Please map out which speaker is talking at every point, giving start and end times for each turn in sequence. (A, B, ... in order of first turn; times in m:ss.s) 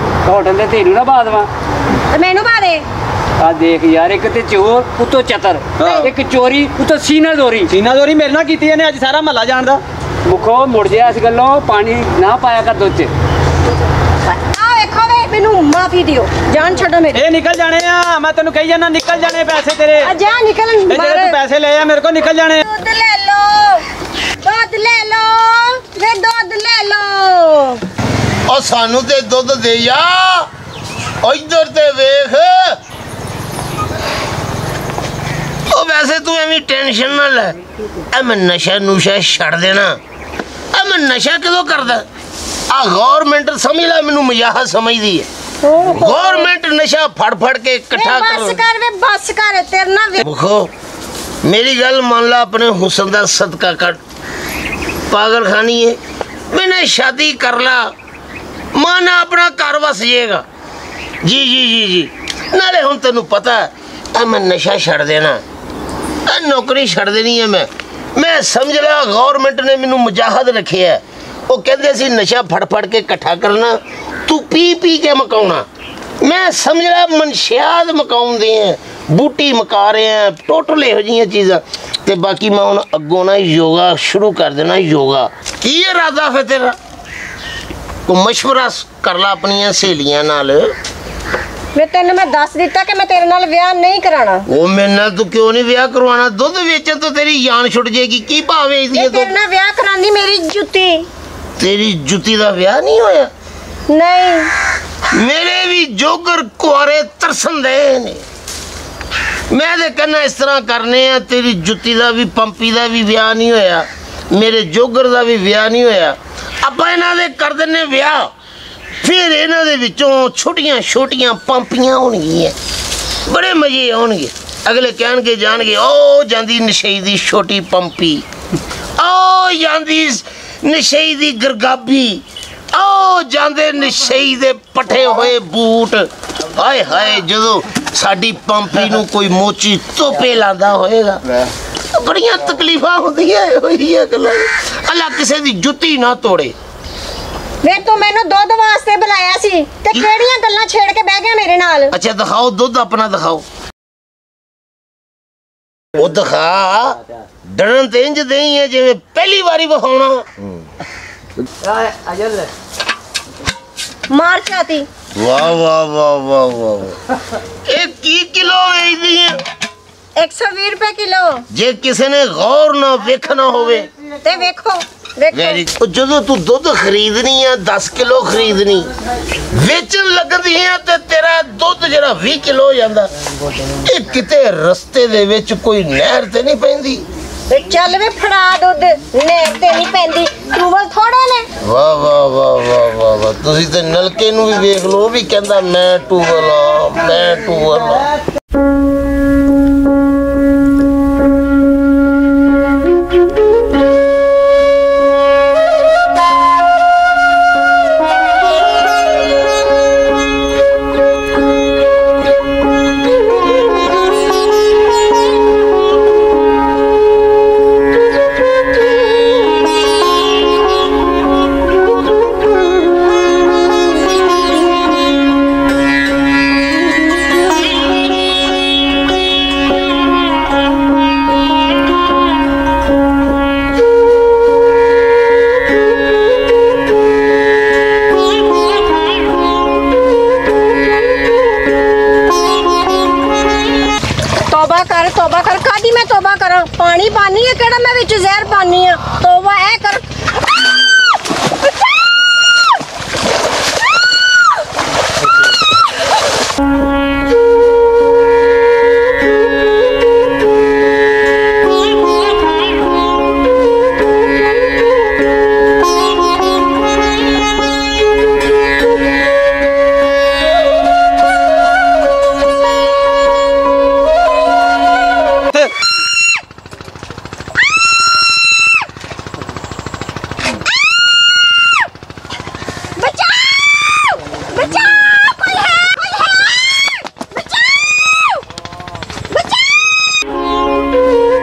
0:00.2-0:01.5 A
0:02.1-0:02.8 B
0:03.4-0:07.7 A
0:05.8-0:06.1 B
0:07.7-0:09.8 C
0:10.2-0:13.1 A
0:14.3-0:17.2 B
0:17.1-0:20.1 C
0:20.0-0:21.4 B
0:20.9-0:22.6 C
0:22.6-0:23.8 B
0:24.4-0:27.8 B
0:28.5-0:30.5 D
0:31.2-0:32.8 D
0:35.7-0:37.6 D
0:38.1-0:40.0 D
0:40.7-0:42.0 D
0:42.7-0:45.3 D
0:45.6-0:46.5 B
0:45.9-0:48.6 D
0:48.0-0:50.2 B
0:50.2-0:50.7 D
0:51.4-0:54.0 D
0:55.1-0:56.0 D
0:56.5-0:57.9 D
0:58.7-1:00.4 D
1:01.2-1:05.4 D
1:06.3-1:15.6 D
1:16.2-1:26.8 D
1:28.0-1:30.7 D
1:31.7-1:34.4 B
1:34.5-1:39.3 D
1:38.9-1:41.1 B
1:41.6-1:43.3 D
1:43.9-1:44.5 B
1:45.1-1:48.2 D
1:49.5-1:58.3 D
1:59.0-2:02.5 D
2:03.2-2:08.2 D
2:09.0-2:21.2 D
2:21.9-2:26.5 D
2:27.6-2:31.9 B
2:31.9-2:33.4 D
2:36.0-2:40.3 D
2:44.1-2:44.9 B
2:45.1-2:47.0 D
2:47.6-2:49.4 D
2:50.2-2:51.4 B
2:51.5-2:53.9 D
2:54.2-2:55.6 B
2:55.3-2:58.9 D
2:59.5-3:03.1 D
3:03.8-3:07.0 D
3:07.5-3:11.5 B
3:11.6-3:18.1 D
4:04.5-4:10.0 B
4:43.0-4:47.7 B